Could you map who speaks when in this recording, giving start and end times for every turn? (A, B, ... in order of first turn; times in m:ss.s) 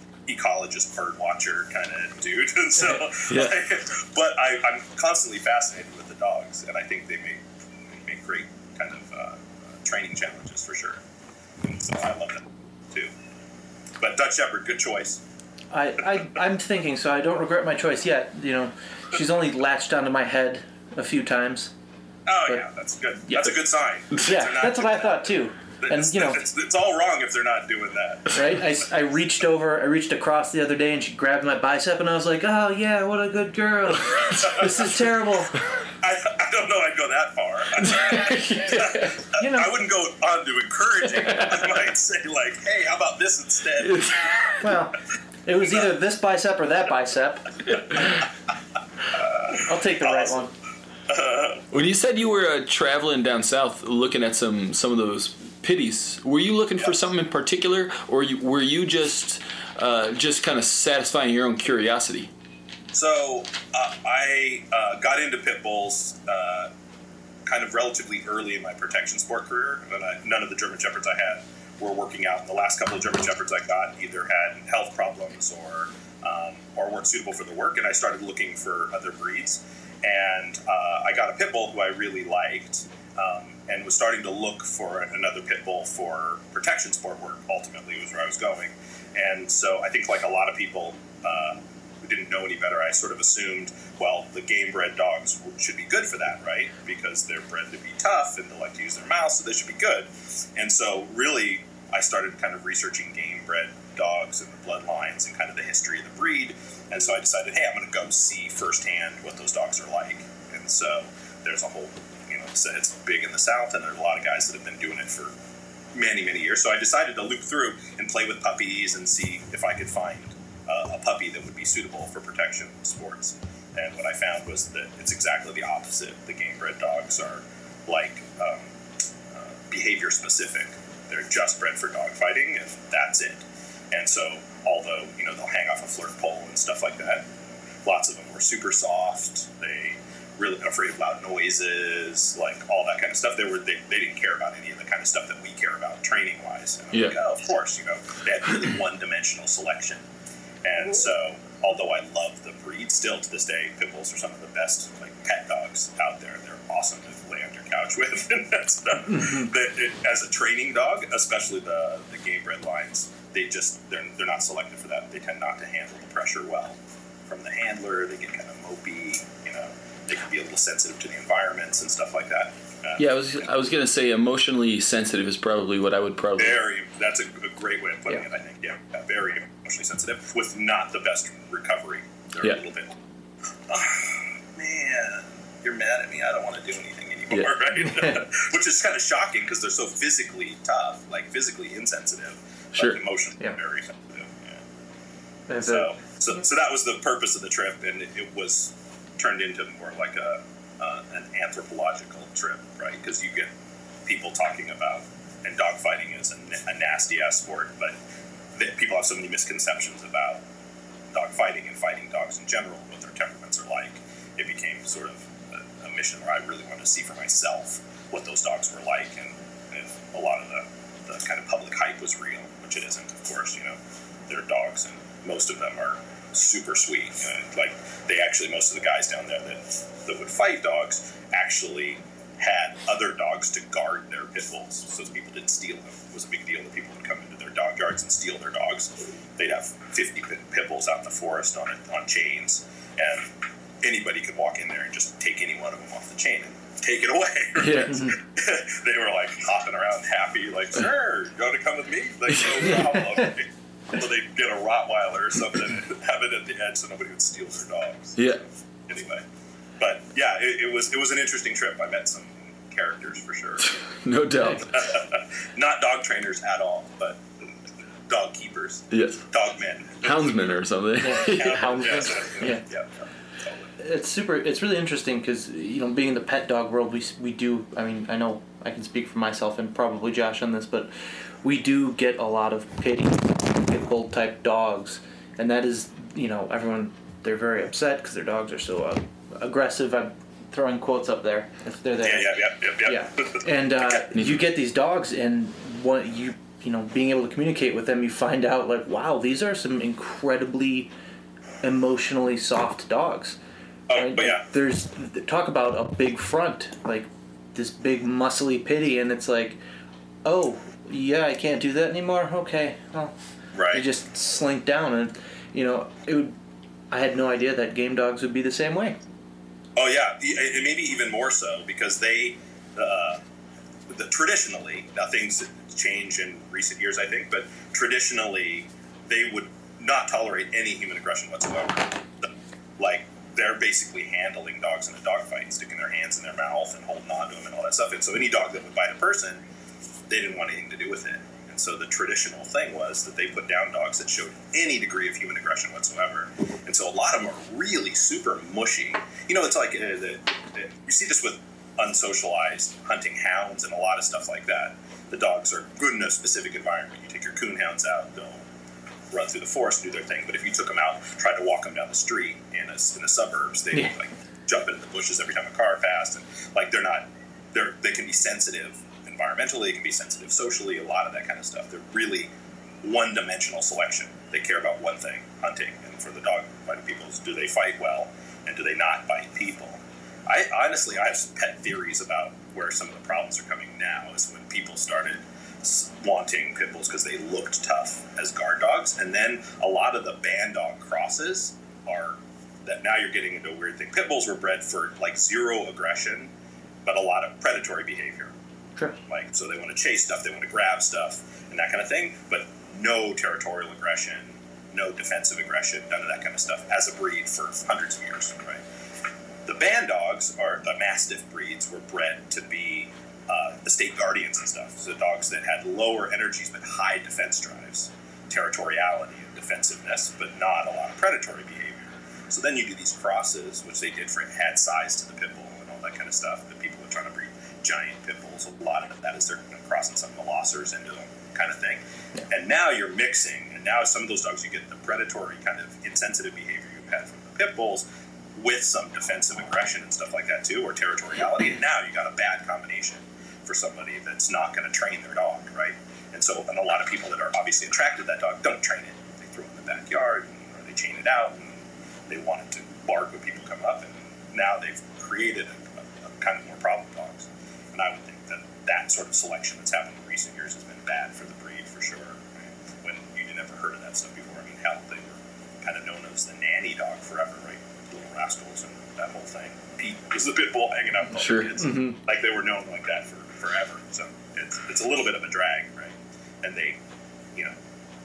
0:00.3-0:11.0 A
0:03.3-0:03.6 B
0:11.6-0:13.1 A
0:14.0-0:15.2 A
0:15.7-0:21.7 C
0:22.3-0:25.2 A
0:23.3-0:23.6 C
0:24.1-0:26.4 C
0:25.8-0:28.6 A
0:28.3-0:35.6 C
0:34.4-0:34.8 A
0:36.0-0:44.3 A
0:37.9-0:39.7 C
0:43.8-0:44.6 B
0:44.6-0:47.8 C
0:49.2-0:50.4 A
0:49.6-0:50.5 C
0:51.1-0:51.6 A
0:51.7-1:02.3 B
1:02.9-1:06.7 A
1:07.4-1:55.3 A
1:55.9-2:08.7 A
2:09.3-2:17.3 A
2:17.8-2:30.0 A
2:30.6-2:53.1 A
2:53.0-2:56.6 B
2:56.4-3:03.0 A
3:03.7-3:14.7 A
3:07.3-3:07.7 B
3:07.8-3:08.2 C
3:12.8-3:13.0 B
3:15.5-3:15.9 C
3:15.6-3:23.5 A
3:24.0-3:28.0 A
3:28.6-3:30.4 A
3:31.1-4:03.3 A
4:03.8-4:19.2 A
4:07.6-4:08.1 B
4:12.3-4:13.1 B
4:19.8-4:23.8 A
4:23.6-4:24.9 B
4:24.7-4:27.2 A
4:28.1-4:30.5 A
4:28.9-4:29.2 B
4:30.0-4:32.1 B
4:31.0-4:32.6 C
4:31.2-4:33.7 A
4:33.8-4:40.9 C
4:41.4-5:00.9 C
4:52.0-4:53.4 A
4:54.1-4:54.4 B
5:01.6-5:03.4 C
5:03.9-5:04.4 A
5:04.0-5:09.6 C
5:10.2-5:13.2 C
5:13.6-5:13.8 A
5:13.7-5:16.4 C
5:16.9-5:19.0 C
5:19.8-5:23.2 A
5:23.9-5:39.4 A
5:40.1-5:58.4 A
5:59.1-6:12.3 A
6:12.8-6:36.3 A
6:36.8-6:38.3 A
6:39.0-6:48.6 A
6:49.4-7:17.8 A
7:18.4-7:56.8 A
7:51.2-7:51.5 B
7:51.6-7:52.0 C